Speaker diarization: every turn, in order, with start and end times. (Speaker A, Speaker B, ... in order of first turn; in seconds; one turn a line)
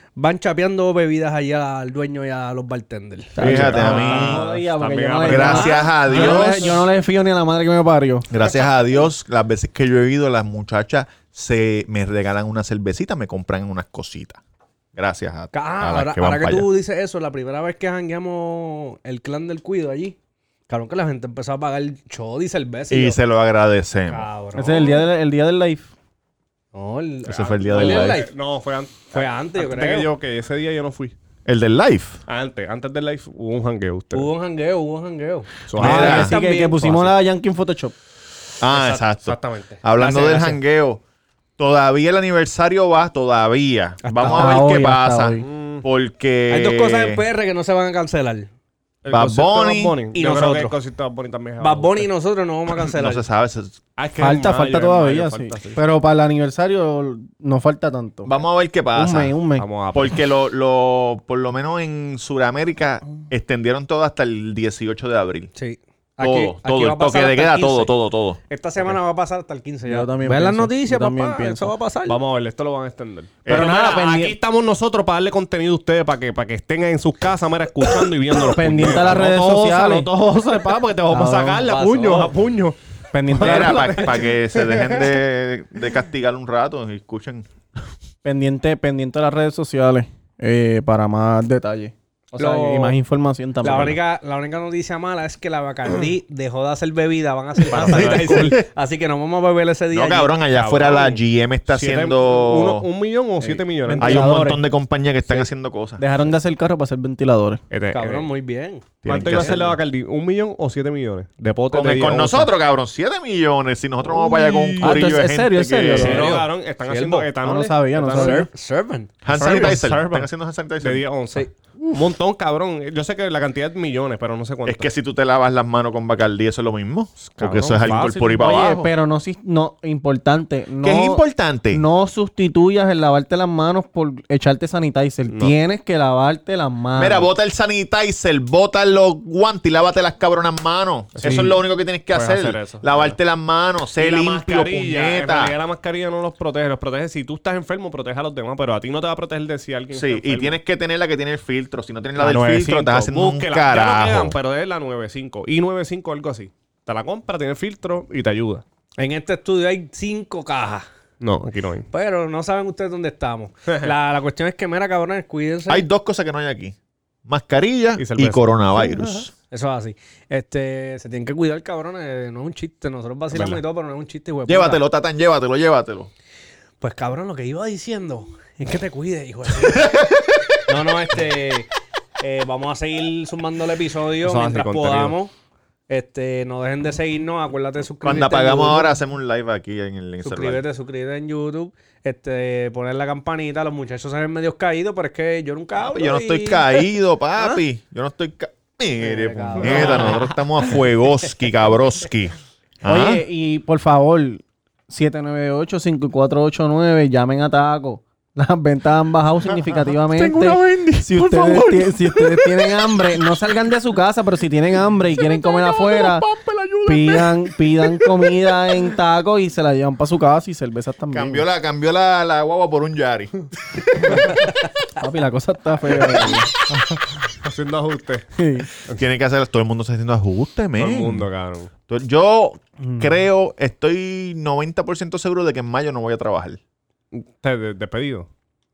Speaker A: 0.2-4.0
Speaker B: 3.4-8.3
Speaker C: 3.4-4.4
Speaker D: 3.4-6.4
Speaker C: 5.2-6.7
Speaker A: 5.4-6.4
Speaker C: 8.3-14.4
Speaker C: 14.9-16.7
Speaker A: 15.5-20.1
Speaker A: 20.7-23.2
Speaker C: 22.9-24.3
Speaker A: 24.1-25.0
Speaker B: 24.5-25.9
Speaker A: 26.7-28.3
Speaker C: 27.2-28.2
Speaker D: 27.6-31.1
Speaker A: 29.1-30.1
Speaker C: 31.4-32.2
Speaker D: 32.3-34.3
Speaker A: 34.1-36.9
Speaker D: 35.7-37.1
Speaker C: 35.7-36.3
Speaker B: 35.8-37.9
Speaker C: 38.6-41.0
Speaker D: 38.7-39.8
Speaker A: 40.0-40.5
Speaker C: 41.6-47.2
Speaker A: 44.0-44.6
Speaker B: 44.2-45.5
Speaker D: 45.4-45.8
Speaker A: 46.5-48.5
Speaker D: 49.0-52.1
Speaker C: 49.1-50.0
Speaker A: 50.1-50.8
Speaker A: 51.6-53.2
Speaker C: 52.7-53.8
Speaker D: 54.0-55.8
Speaker B: 54.2-58.4
Speaker C: 58.2-59.4
Speaker B: 58.9-59.7
Speaker D: 59.6-60.2
Speaker C: 59.9-65.5
Speaker A: 65.5-67.9
Speaker C: 66.2-68.4
Speaker A: 68.5-72.2
Speaker B: 69.8-71.7
Speaker D: 72.0-85.1
Speaker C: 73.5-73.8
Speaker B: 73.5-74.3
Speaker B: 78.4-81.6
Speaker A: 81.5-82.3
Speaker B: 83.1-84.1
Speaker C: 83.4-87.5
Speaker B: 88.2-94.0
Speaker A: 92.4-93.0
Speaker A: 93.6-100.4
Speaker D: 97.7-98.6
Speaker C: 97.7-98.7
Speaker C: 99.9-102.9
Speaker D: 100.5-101.2
Speaker D: 101.7-104.5
Speaker B: 103.4-104.6
Speaker C: 104.0-106.0
Speaker B: 105.2-107.6
Speaker D: 107.7-108.3
Speaker A: 107.9-109.6
Speaker C: 109.0-109.8
Speaker D: 109.0-112.5
Speaker C: 111.7-116.3
Speaker D: 114.0-115.1
Speaker B: 114.8-116.4
Speaker D: 115.9-118.5
Speaker A: 116.0-117.3
Speaker B: 117.4-118.5
Speaker A: 118.1-119.1
Speaker C: 119.2-121.0
Speaker D: 119.3-124.9
Speaker C: 124.6-128.9
Speaker D: 127.2-128.5
Speaker B: 128.4-137.3
Speaker C: 130.8-131.8
Speaker D: 135.3-135.6
Speaker C: 136.9-145.5
Speaker D: 141.1-141.6
Speaker D: 142.1-143.2
Speaker D: 144.0-150.6
Speaker C: 149.9-154.3
Speaker D: 152.2-158.6
Speaker A: 159.0-160.8
Speaker D: 161.2-161.9
Speaker A: 161.9-165.9
Speaker C: 165.7-166.8
Speaker C: 167.3-169.3
Speaker D: 168.0-168.9
Speaker A: 169.5-174.8
Speaker D: 173.3-173.6
Speaker C: 174.5-176.1
Speaker A: 176.8-180.0
Speaker C: 179.6-180.4
Speaker A: 180.7-181.7
Speaker A: 182.2-185.3
Speaker D: 184.2-185.2
Speaker A: 185.9-188.9
Speaker C: 188.0-190.6
Speaker A: 190.2-197.6
Speaker C: 195.8-203.3
Speaker A: 199.0-200.2
Speaker D: 199.6-200.2
Speaker B: 202.8-216.2
Speaker C: 210.1-213.1
Speaker C: 215.1-218.1
Speaker B: 216.8-221.4
Speaker C: 221.1-224.3
Speaker B: 225.0-226.5
Speaker D: 227.4-228.3
Speaker B: 228.4-228.7
Speaker C: 228.9-231.3
Speaker D: 230.8-231.7
Speaker C: 231.9-236.6
Speaker B: 232.8-233.1
Speaker D: 237.1-238.3